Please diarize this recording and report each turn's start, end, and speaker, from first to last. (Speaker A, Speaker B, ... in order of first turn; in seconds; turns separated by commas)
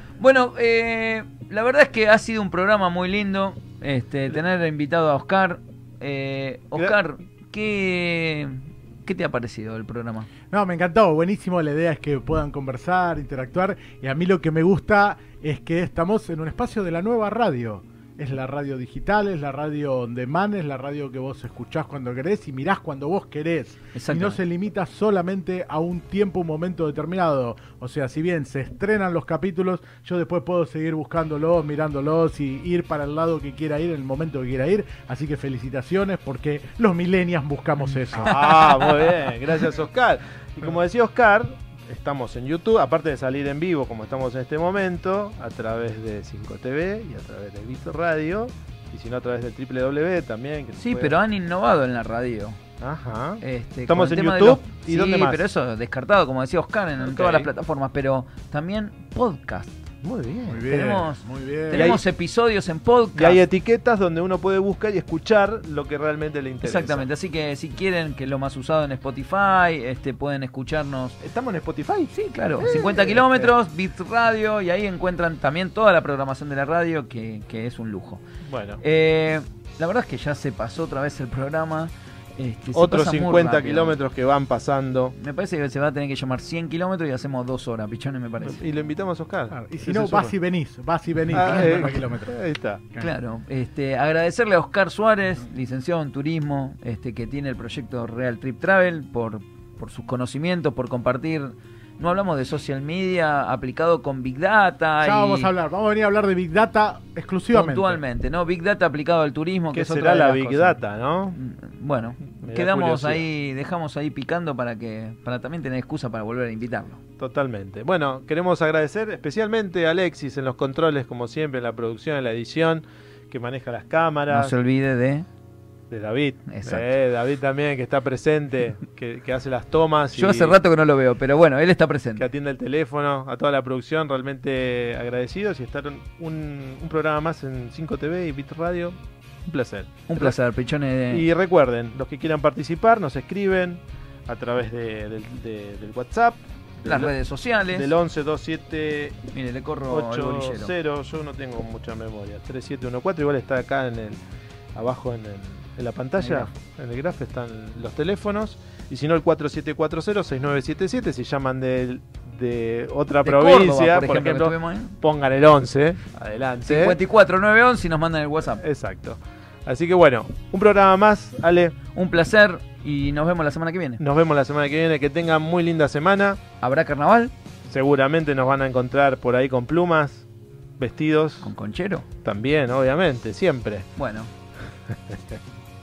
Speaker A: 0.2-10.3, Speaker B: 10.5-38.3, Speaker A: 23.9-24.4, Speaker A: 38.2-39.1, Speaker C: 38.2-51.2, Speaker A: 50.8-52.6, Speaker C: 52.8-55.5, Speaker A: 53.4-59.7, Speaker C: 57.0-57.5, Speaker C: 60.0-60.6, Speaker B: 60.5-61.9, Speaker A: 60.7-63.4, Speaker C: 61.7-62.0, Speaker C: 63.1-67.0, Speaker A: 66.6-71.2, Speaker C: 71.2-73.5, Speaker A: 72.1-78.2, Speaker C: 78.4-78.8, Speaker A: 78.8-84.0, Speaker C: 82.7-85.1, Speaker A: 85.2-88.7, Speaker C: 88.4-90.3, Speaker B: 89.5-92.3, Speaker C: 91.3-92.8, Speaker A: 93.0-105.5, Speaker B: 105.0-108.0, Speaker A: 107.5-110.8, Speaker C: 109.7-111.4, Speaker A: 111.3-117.0, Speaker C: 112.4-113.2, Speaker C: 117.2-124.5, Speaker A: 124.3-125.2, Speaker C: 125.9-130.6, Speaker A: 126.5-126.9, Speaker A: 130.1-132.3, Speaker C: 132.2-140.4, Speaker A: 140.1-141.2, Speaker C: 141.1-147.2, Speaker A: 146.8-147.9, Speaker C: 147.7-149.2, Speaker A: 149.3-150.7, Speaker C: 149.9-154.2, Speaker C: 154.7-167.0, Speaker A: 156.2-156.5, Speaker A: 163.2-164.9, Speaker A: 166.7-168.6, Speaker C: 168.4-171.7, Speaker A: 171.9-174.0, Speaker C: 174.0-176.4, Speaker A: 176.6-177.3, Speaker C: 177.7-180.2, Speaker C: 180.8-181.5, Speaker A: 181.4-182.1, Speaker C: 182.2-183.8, Speaker A: 183.9-184.3